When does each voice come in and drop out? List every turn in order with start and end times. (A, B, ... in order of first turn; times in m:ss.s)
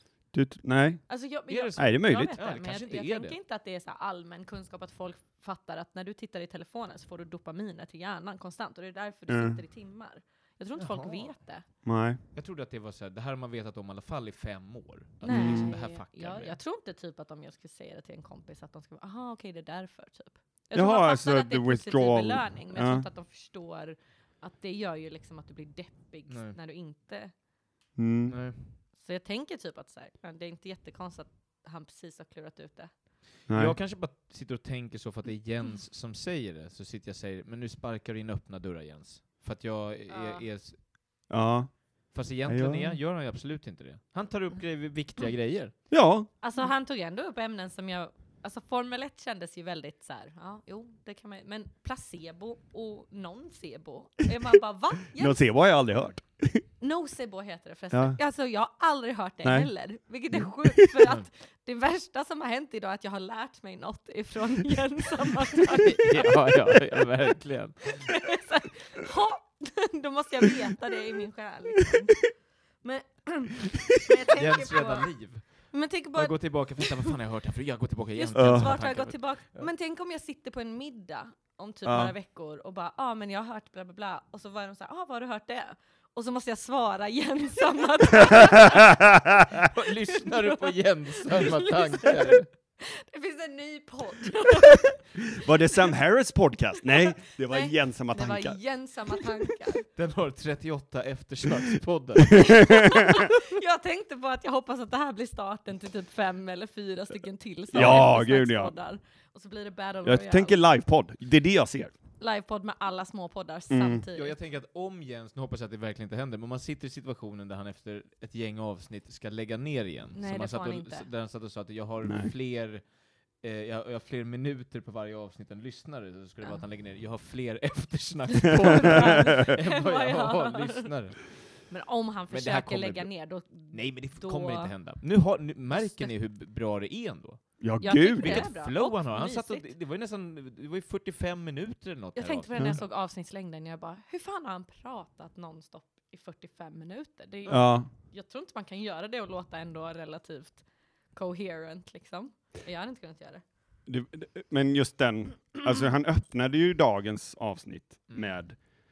0:00.3-0:01.1 A
0:01.1-0:11.6 B
0:01.5-0:03.4 C
0:01.8-0:02.4 A
0:09.3-0:09.6 A
0:10.8-0:11.4 C
0:11.8-0:12.2 A
0:12.3-0:16.6 C
0:15.2-0:27.3 B
0:15.2-0:15.7 A
0:20.7-0:23.0 A
0:26.3-0:26.5 C
0:28.0-0:28.4 A
0:28.3-0:28.8 C
0:28.9-0:33.0 B
0:33.5-0:33.8 A
0:33.5-0:40.8 C
0:40.1-0:40.4 B
0:41.3-0:43.0 A
0:42.1-0:45.7 C
0:45.9-0:46.3 A
0:46.4-0:55.4 B
0:55.1-0:56.6 A
0:56.8-1:06.5 B
0:57.9-0:58.2 A
0:59.4-0:59.7 A
1:00.3-1:00.9 A
1:01.0-1:01.3 C
1:05.7-1:08.2 C
1:08.0-1:17.1 B
1:14.3-1:19.7 C
1:18.2-1:29.1 B
1:18.3-1:18.8 A
1:21.8-1:22.1 A
1:28.2-1:29.6 A
1:29.7-1:32.5 C
1:30.2-1:35.4 B
1:35.3-1:38.6 A
1:37.4-1:39.8 B
1:39.9-1:42.6 C
1:42.4-1:50.6 B
1:42.5-1:43.3 A
1:47.7-1:48.7 A
1:47.7-1:48.1 C
1:50.0-1:51.9 A
1:52.2-1:54.4 B
1:53.7-1:54.0 A
1:54.1-2:11.4 C
2:00.1-2:01.1 B
2:02.0-2:02.3 A
2:08.6-2:10.9 B
2:11.7-2:14.7 B
2:12.3-2:13.1 C
2:13.7-2:22.8 C
2:15.7-2:16.1 B
2:17.6-2:18.5 A
2:17.8-2:19.7 B
2:22.2-2:33.4 B
2:27.5-2:27.9 A
2:33.8-2:38.6 A
2:38.1-2:38.4 C